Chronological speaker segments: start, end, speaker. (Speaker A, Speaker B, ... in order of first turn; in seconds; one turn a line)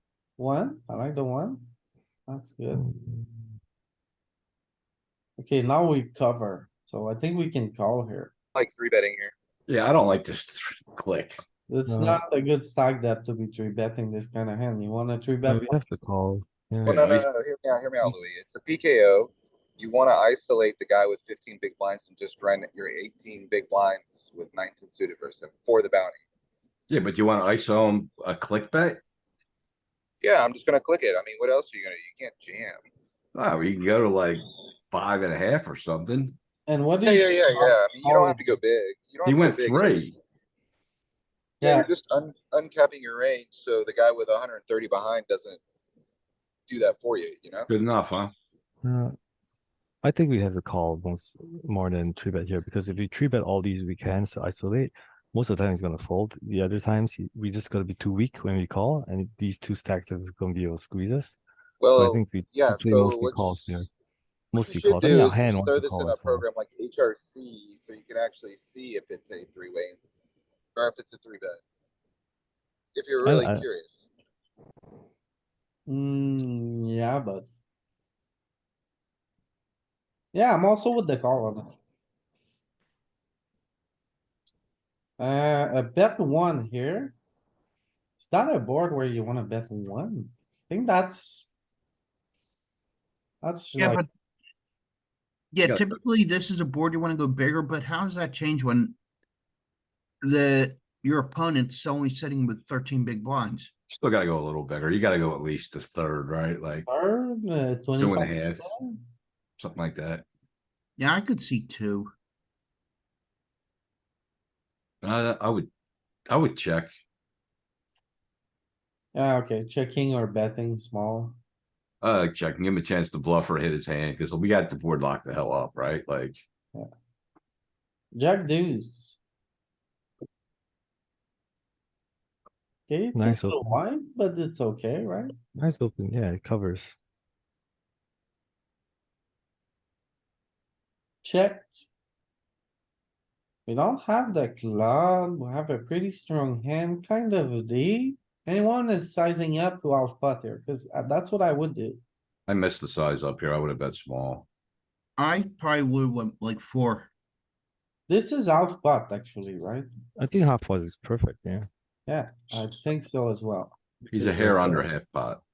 Speaker A: 0.4-1.7
Speaker A: 2.3-2.8
Speaker B: 2.7-3.5
Speaker A: 5.4-8.3
Speaker C: 8.5-9.3
Speaker D: 9.7-11.4
Speaker A: 11.7-15.7
Speaker B: 11.9-12.2
Speaker B: 15.4-17.3
Speaker C: 16.9-26.2
Speaker D: 26.9-29.0
Speaker C: 30.2-32.8
Speaker D: 33.3-36.4
Speaker A: 36.7-38.5
Speaker C: 37.0-40.1
Speaker D: 39.2-40.1
Speaker C: 41.6-45.6
Speaker A: 41.6-41.9
Speaker C: 46.7-47.7
Speaker D: 47.7-48.3
Speaker B: 48.8-49.1
Speaker B: 50.0-61.4
Speaker C: 61.8-63.7
Speaker B: 62.0-63.9
Speaker C: 64.5-70.0
Speaker B: 64.5-66.5
Speaker C: 70.7-71.6
Speaker C: 72.9-74.1
Speaker B: 73.2-73.6
Speaker A: 75.9-77.5
Speaker A: 80.3-81.7
Speaker A: 85.2-87.2
Speaker A: 88.2-91.5
Speaker A: 93.4-94.0
Speaker E: 93.8-94.1
Speaker E: 95.5-99.0
Speaker E: 100.2-103.7
Speaker D: 103.9-106.9
Speaker A: 106.9-109.0
Speaker D: 108.0-108.7
Speaker D: 109.6-110.2
Speaker E: 111.0-112.1
Speaker D: 115.0-115.7
Speaker D: 116.3-116.9
Speaker A: 119.1-121.4
Speaker D: 122.0-126.4
Speaker A: 128.1-129.2
Speaker A: 132.9-135.3
Speaker B: 133.1-133.8
Speaker B: 135.6-136.9
Speaker A: 141.2-141.9
Speaker A: 143.7-152.0
Speaker D: 152.5-154.4
Speaker E: 155.2-157.1
Speaker A: 158.1-159.9
Speaker B: 160.2-161.7
Speaker A: 162.1-164.8
Speaker D: 164.1-165.4